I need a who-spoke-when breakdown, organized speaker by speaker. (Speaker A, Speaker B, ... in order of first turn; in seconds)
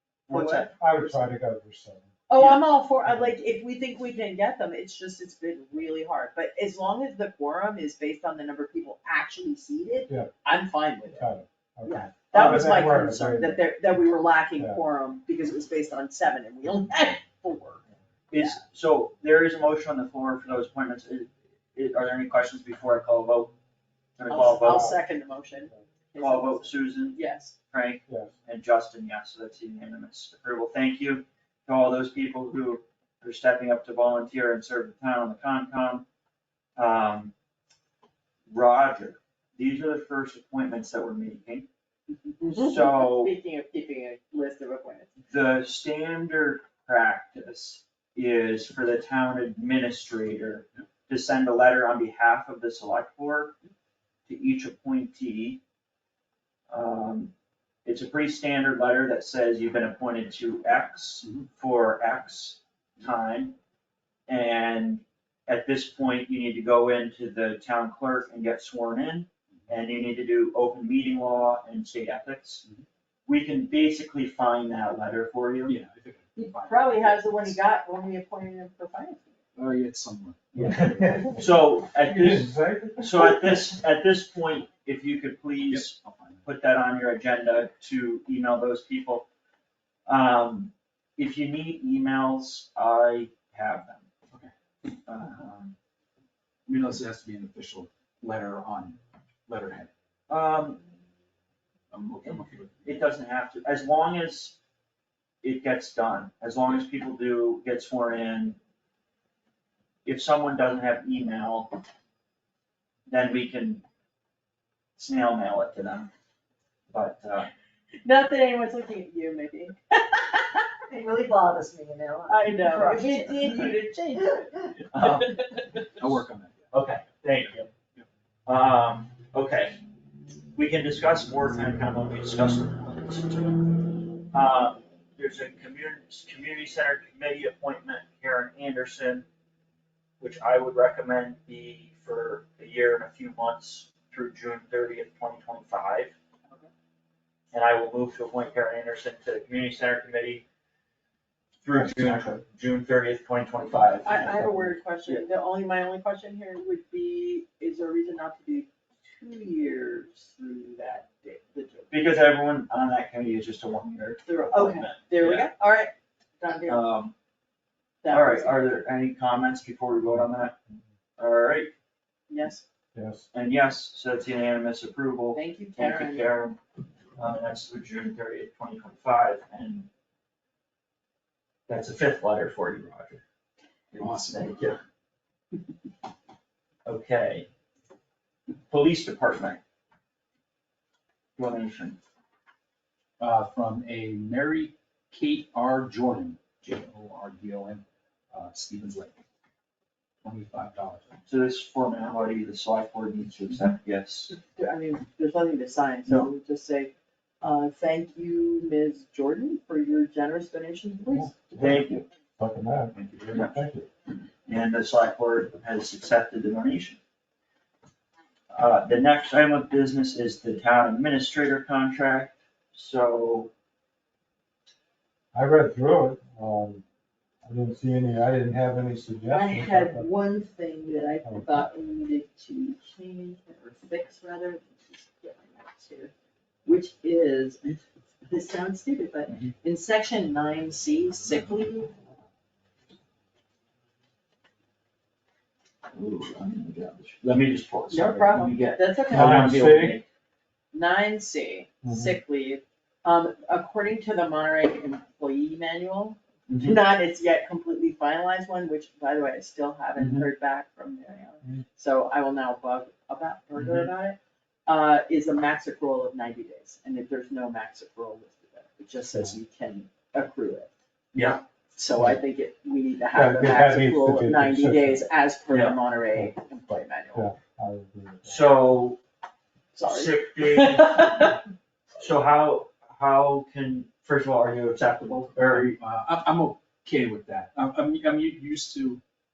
Speaker A: 0.3-1.2, 18.3-23.5, 24.2-25.0, 26.2-27.2, 27.7-36.0, 36.8-37.3, 38.5-41.7, 42.4-43.3, 45.3-53.6, 54.3-55.6, 56.7-57.3, 57.9-63.6, 64.3-72.6, 73.3-75.8, 80.5-89.3, 90.1-94.1, 95.1-95.7, 100.3-100.8, 102.2-104.6, 105.4-108.6, 110.0-111.8, 113.1-113.8, 115.0-116.1, 116.9-117.5, 124.9-125.3, 126.7-127.7, 128.5-129.8, 130.6-139.2, 140.2-146.1, 147.5-150.4, 151.6-155.2, 161.9-165.5, 166.7-167.1, 168.1-170.6, 171.2-171.7, 173.3-176.6, 177.2-179.9, 181.7-183.2, 184.0-184.8, 186.9-187.5, 188.7-189.6, 191.4-192.0, 201.3-204.3, 211.6-212.1, 212.9-213.6, 214.5-217.0, 218.5-223.5, 245.9-250.0, 256.5-256.8, 271.1-271.4, 275.5-275.8, 278.2-279.0, 279.9-281.3, 282.0-285.8
Speaker B: 0.3-0.7, 2.3-11.3, 11.8-17.8, 24.3-27.5, 42.4-45.1, 76.4-79.4, 118.0-120.7, 122.3-125.8, 154.0-161.9, 164.3-166.8, 168.0-168.8, 172.3-172.6, 175.3-176.3, 204.3-211.4, 229.3-236.1, 236.7-241.9, 247.9-249.5, 250.7-270.7, 271.7-277.3, 279.7-281.4
Speaker C: 0.7-2.1, 3.1-3.3, 11.1-13.6, 24.6-25.0, 28.1-28.3, 80.5-81.4, 82.0-83.6, 151.8-152.3, 172.9-173.3, 211.1-213.9, 225.3-226.8, 227.4-230.1, 231.2-231.6, 249.1-250.0, 251.8-252.2, 273.1-275.1, 277.1-278.5
Speaker D: 75.7-77.6, 79.6-80.4, 85.7-86.5, 96.7-99.9, 101.9-103.0, 125.9-126.7, 127.4-128.1, 183.9-184.7, 193.2-199.2, 200.2-201.2, 260.0-260.3, 263.6-263.9, 285.4-289.0
Speaker E: 120.9-124.8